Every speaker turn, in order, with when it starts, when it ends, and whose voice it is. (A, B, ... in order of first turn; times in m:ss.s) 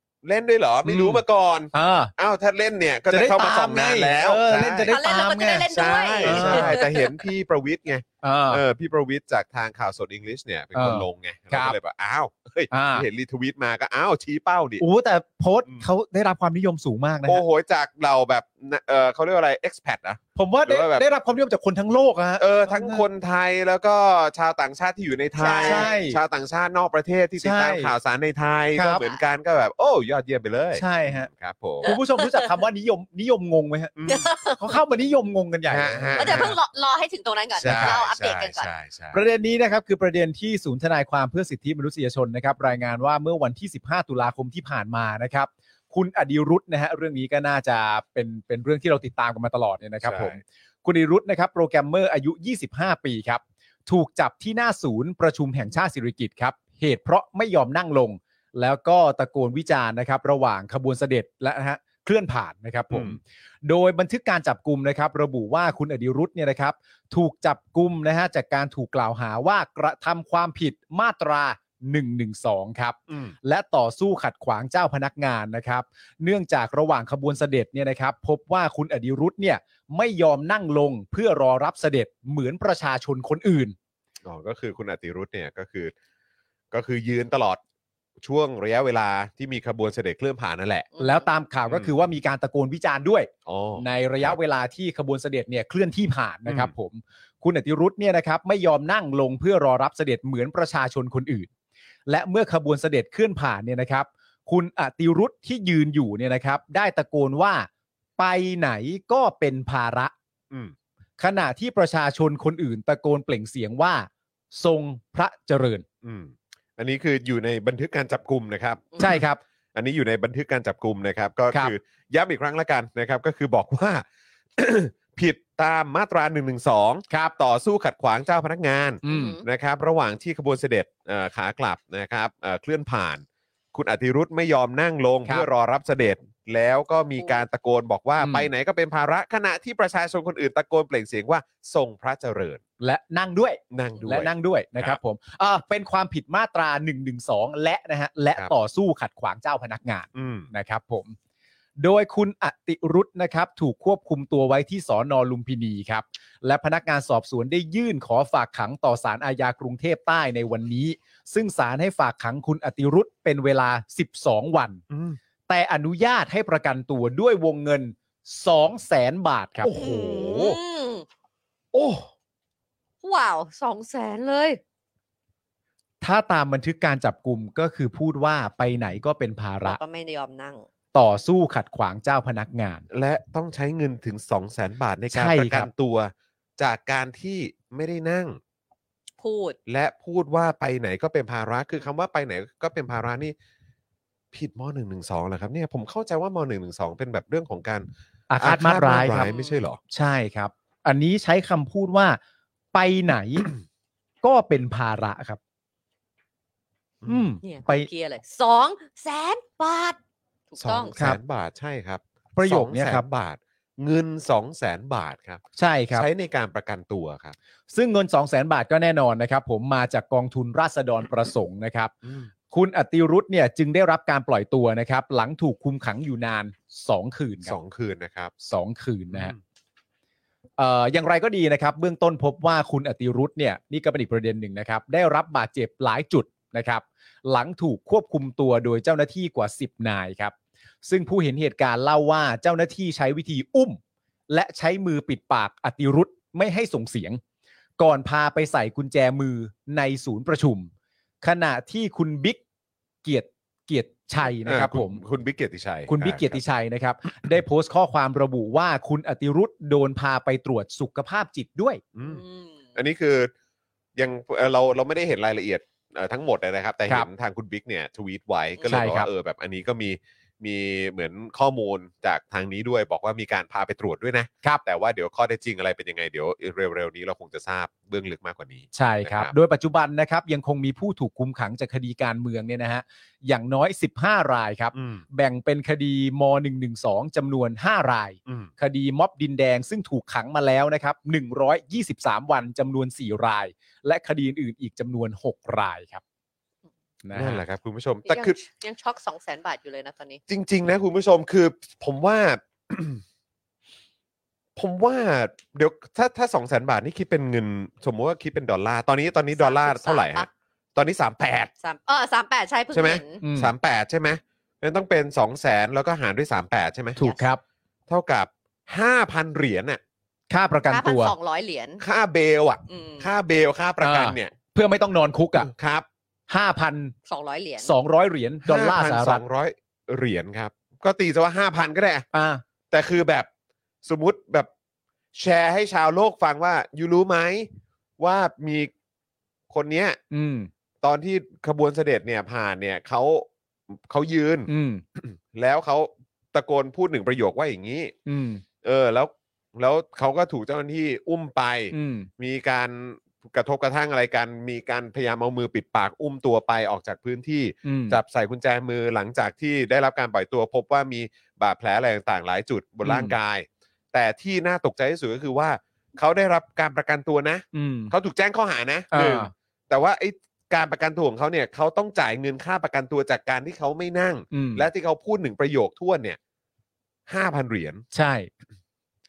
0:00.2-0:05.0 A
0:00.8-0:01.2 B
0:01.7-0:02.1 B
0:03.1-0:06.8 B
0:04.9-0:07.1 C
0:05.7-0:14.8 A
0:08.2-0:08.6 B
0:10.8-0:11.8 B
0:12.7-0:13.1 B
0:14.8-0:17.4 B
0:17.3-0:21.0 A
0:20.4-0:23.0 B
0:22.4-0:31.9 A
0:25.4-0:25.9 C
0:25.6-0:26.2 B
0:27.4-0:27.9 B
0:28.8-0:29.0 B
0:30.8-0:31.3 B
0:31.8-0:34.0 B
0:31.8-0:32.5 C
0:34.0-0:34.3 A
0:34.1-0:34.7 C
0:34.6-0:36.5 B
0:35.7-0:36.6 A
0:36.2-0:38.7 C
0:37.6-0:39.2 A
0:37.7-0:38.0 B
0:39.1-1:23.8 B
0:50.0-0:50.4 A
1:02.9-1:03.2 A
1:13.1-1:13.4 A
1:24.2-1:25.9 A
1:26.7-1:27.6 A
1:28.2-1:30.9 A
1:31.0-1:31.3 C
1:31.0-1:41.5 B
1:31.7-1:31.9 A
1:33.5-1:34.4 A
1:36.5-1:36.7 A
1:42.1-1:50.1 B
1:51.2-1:55.8 B
1:56.0-1:59.2 A
1:59.0-1:59.4 B
1:59.8-2:04.0 A
2:04.6-2:22.6 A
2:09.0-2:09.4 B
2:09.1-2:09.4 C
2:17.2-2:17.4 C
2:18.2-2:18.5 B
2:22.8-2:31.2 B
2:23.7-2:25.0 A
2:30.2-2:30.5 A
2:31.8-2:44.8 B
2:44.9-2:45.2 A
2:45.5-2:50.4 B
2:49.6-2:50.6 A
2:49.7-2:51.1 C
2:51.7-2:52.1 A
2:53.0-2:54.6 C
2:56.0-2:59.8 B
2:59.6-3:00.6 C
3:00.9-3:02.8 B
3:02.9-3:08.4 A
3:05.1-3:05.7 B
3:09.2-3:09.6 C
3:09.7-3:13.4 A
3:14.3-3:19.8 A
3:18.3-3:19.3 B
3:19.1-3:19.6 C
3:19.9-3:22.2 B
3:22.7-3:23.5 B
3:24.2-3:25.4 B
3:27.1-3:27.9 B
3:27.4-3:30.0 C
3:30.5-3:31.0 C
3:30.6-3:37.4 A
3:32.4-3:33.0 B
3:35.6-3:36.1 B
3:37.7-3:41.9 B
3:42.0-3:42.3 A
3:42.5-3:47.6 B
3:47.4-3:48.3 A
3:48.4-3:49.4 B
3:49.1-3:49.4 A
3:50.6-4:00.3 B
4:00.8-4:07.2 B
4:07.8-4:10.7 B
4:11.2-4:12.4 B
4:13.0-4:15.0 B
4:14.4-4:16.4 A
4:15.9-4:21.8 B
4:22.0-4:22.2 A
4:22.0-4:22.6 C
4:22.8-4:23.3 A
4:24.0-4:39.3 A
4:28.7-4:29.1 B
4:38.7-4:56.0 B
4:44.7-4:45.0 A
4:57.0-4:57.4 B
4:57.1-4:58.4 A
4:58.1-5:00.2 C
5:00.3-5:03.0 A
5:04.6-5:11.5 A
5:09.4-5:10.3 C
5:11.6-5:13.2 C
5:12.7-5:17.0 A
5:13.2-5:13.5 B
5:17.0-5:17.4 B
5:17.9-5:19.8 A
5:20.3-5:21.1 B
5:20.7-5:21.8 C
5:21.8-5:24.3 A
5:22.7-5:23.1 C
5:23.8-5:25.5 B
5:25.4-5:25.9 A
5:26.3-5:26.9 B
5:27.1-5:27.7 C
5:27.6-5:29.2 B
5:28.4-5:32.1 A
5:32.1-5:32.4 B
5:32.7-5:33.3 A
5:33.8-5:34.5 A
5:35.2-5:38.7 A
5:39.5-5:40.0 A
5:40.1-5:40.5 B
5:40.8-5:48.0 A
5:44.5-5:44.8 B
5:48.1-5:48.4 B
5:48.6-6:16.2 A
5:51.7-5:52.1 B
5:57.6-5:58.0 B
6:02.8-6:03.2 B
6:07.5-6:07.9 B
6:08.9-6:09.3 B
6:14.3-6:14.7 B
6:17.1-6:17.8 A
6:17.9-6:18.3 B